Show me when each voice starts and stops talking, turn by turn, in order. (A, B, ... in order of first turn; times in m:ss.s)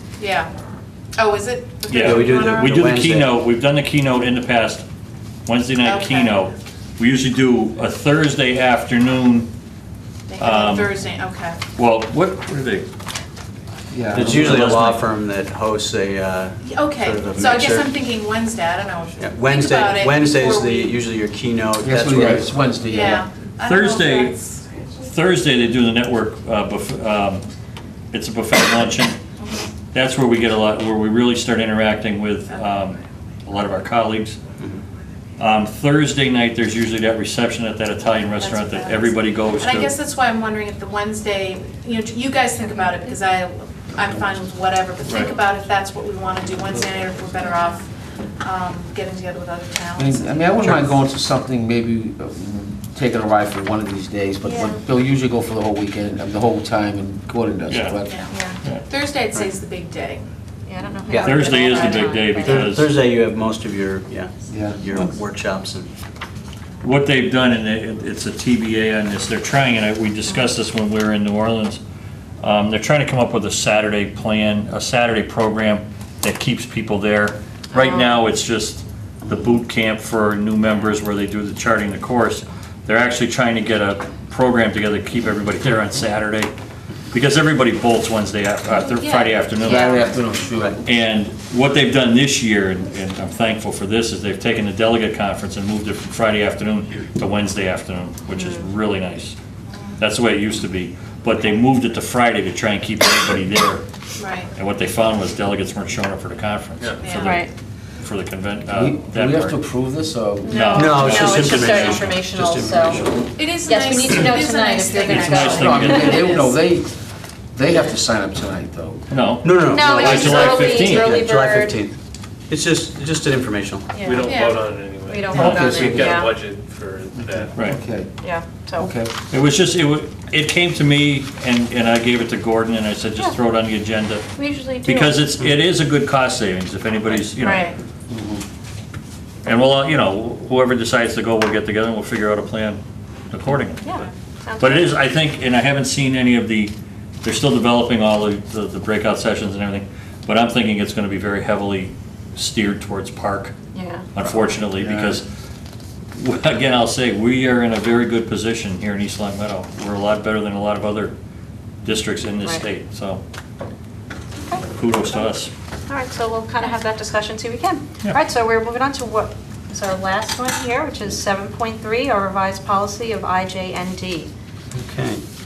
0:00.2-0:00.5 A
0:01.2-0:02.8 A
0:01.9-0:04.8 B
0:02.0-0:03.4 C
0:05.4-0:09.5 B
0:05.7-0:06.5 A
0:10.3-0:11.6 A
0:10.4-0:11.0 B
0:11.8-0:12.9 B
0:13.9-0:14.7 D
0:14.1-0:17.9 C
0:14.2-0:15.0 B
0:16.6-0:21.0 A
0:19.2-0:22.5 C
0:21.8-0:23.2 D
0:22.8-0:24.7 A
0:23.6-0:24.4 B
0:25.0-0:27.4 B
0:28.1-0:29.2 B
0:29.4-0:29.7 A
0:29.9-0:34.4 B
0:35.4-0:39.9 B
0:38.3-0:51.0 A
0:42.6-0:43.2 E
0:45.0-0:45.3 B
0:47.4-0:47.8 E
0:50.0-0:58.2 D
0:54.4-0:54.7 A
0:57.7-0:58.0 B
0:58.0-1:00.2 A
0:58.3-0:58.6 E
1:00.7-1:02.7 E
1:01.1-1:01.5 C
1:01.1-1:02.6 A
1:01.2-1:02.9 B
1:02.4-1:05.9 C
1:04.5-1:04.8 D
1:06.8-1:11.8 B
1:12.4-1:26.5 B
1:17.7-1:18.2 E
1:27.1-1:30.1 B
1:28.7-1:30.3 A
1:29.6-1:30.8 D
1:30.8-1:39.4 B
1:38.3-1:38.7 E
1:39.7-1:40.0 A
1:40.0-1:43.8 B
1:44.2-1:44.5 A
1:44.5-1:49.6 B
1:46.8-1:47.1 F
1:47.0-1:47.4 A
1:47.2-1:47.5 E
1:48.7-1:51.3 D
1:50.4-1:53.0 E
1:50.5-1:51.0 B
1:50.7-1:53.3 C
1:51.0-1:52.0 A
1:51.6-1:51.9 B
1:52.6-1:53.3 D
1:53.3-1:56.4 A
1:53.6-1:56.4 E
1:55.0-1:56.3 B
1:55.2-1:59.1 D
1:59.1-2:01.2 B
1:59.4-2:02.0 C
1:59.6-2:01.8 E
2:02.5-2:03.9 C
2:03.9-2:04.3 E
2:04.0-2:07.7 F
2:04.2-2:04.7 A
2:05.0-2:06.3 E
2:05.3-2:06.3 D
2:07.2-2:08.2 D
2:08.2-2:09.0 E
2:08.8-2:09.1 D
2:09.3-2:14.2 B
2:14.3-2:15.3 E
2:14.8-2:17.7 B
2:17.4-2:17.7 A
2:17.4-2:17.7 E
2:18.1-2:18.4 D
2:19.4-2:23.8 B
2:23.8-2:25.0 E
2:24.6-2:33.5 B
2:33.7-2:34.1 E
2:34.2-2:35.3 B
2:36.1-2:41.1 B
2:41.8-2:43.2 B
2:44.4-2:45.2 E
2:44.7-2:45.5 B
2:45.9-2:54.3 E
2:54.7-2:55.2 C